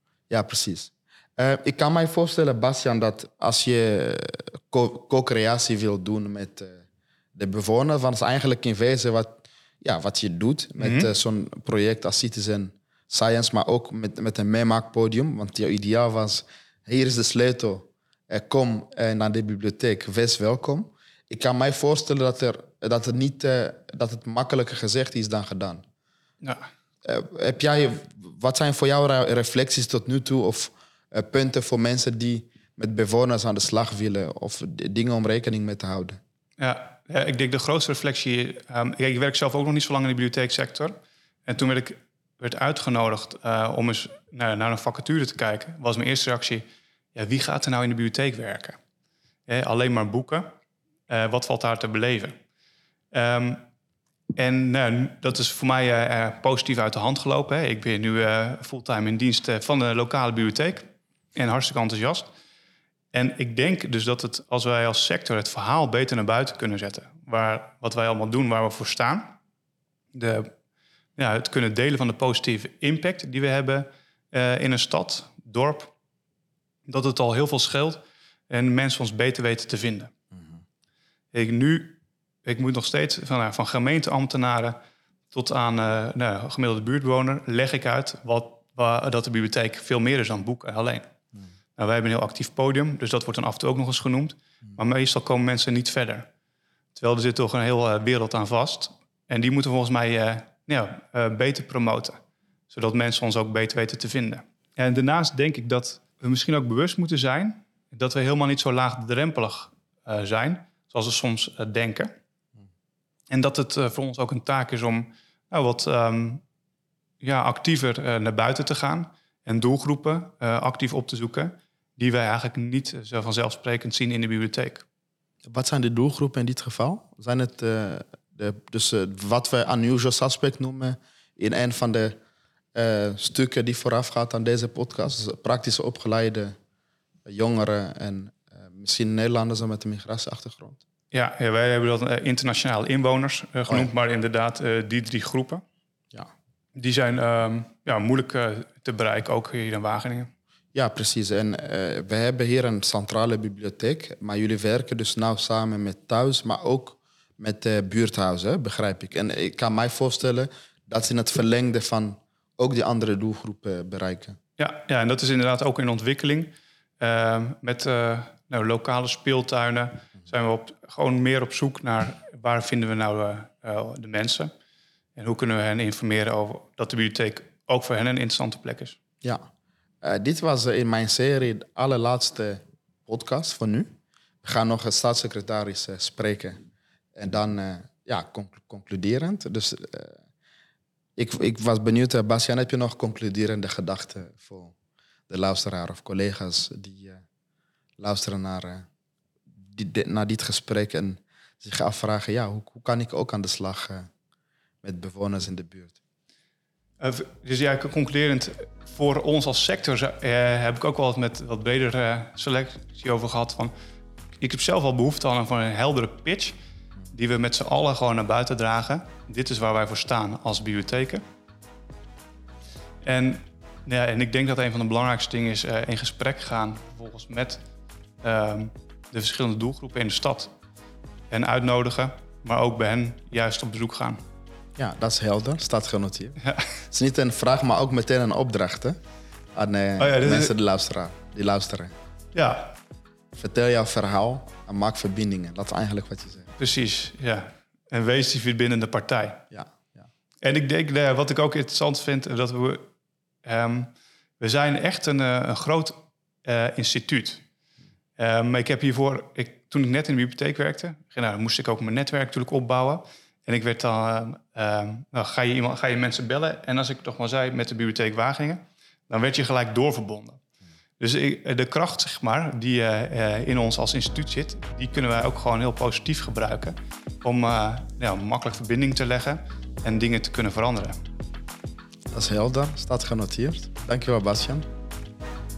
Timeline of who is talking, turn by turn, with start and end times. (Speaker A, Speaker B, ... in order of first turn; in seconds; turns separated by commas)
Speaker A: 0.3-6.8, Speaker A: 7.4-25.8, Speaker B: 10.8-11.1, Speaker B: 26.4-26.7, Speaker A: 27.1-36.2, Speaker B: 36.6-40.9, Speaker B: 41.5-48.8, Speaker B: 49.5-50.5, Speaker B: 51.1-52.4, Speaker B: 53.1-53.6, Speaker B: 54.4-62.3, Speaker B: 63.1-69.4, Speaker B: 70.1-70.5, Speaker B: 71.2-75.9, Speaker B: 76.9-80.1, Speaker B: 81.3-84.8, Speaker B: 85.3-91.1, Speaker B: 91.8-96.3, Speaker B: 97.0-112.1, Speaker B: 113.3-116.4, Speaker B: 117.2-124.8, Speaker A: 125.5-132.2, Speaker A: 132.8-136.6, Speaker A: 137.3-140.8, Speaker B: 141.1-145.6, Speaker B: 146.8-150.3, Speaker A: 150.7-164.4, Speaker B: 164.6-174.5, Speaker B: 175.2-179.0, Speaker A: 180.0-183.9, Speaker A: 184.4-186.6, Speaker A: 187.2-190.2, Speaker A: 191.2-194.7, Speaker A: 195.3-197.2, Speaker A: 198.0-198.9, Speaker A: 199.7-204.1, Speaker A: 204.8-206.0, Speaker B: 207.0-213.7, Speaker B: 214.4-216.6, Speaker B: 217.1-221.2, Speaker B: 223.0-227.6, Speaker B: 228.2-230.5, Speaker B: 231.3-234.2, Speaker A: 234.8-239.0, Speaker B: 236.4-236.7, Speaker A: 239.6-241.9, Speaker B: 240.0-240.5, Speaker B: 242.3-242.8, Speaker A: 243.4-246.5, Speaker B: 246.6-249.4, Speaker A: 249.5-250.0, Speaker B: 250.4-252.9, Speaker B: 253.4-257.4, Speaker B: 258.2-270.4, Speaker B: 271.0-281.0, Speaker A: 282.1-284.7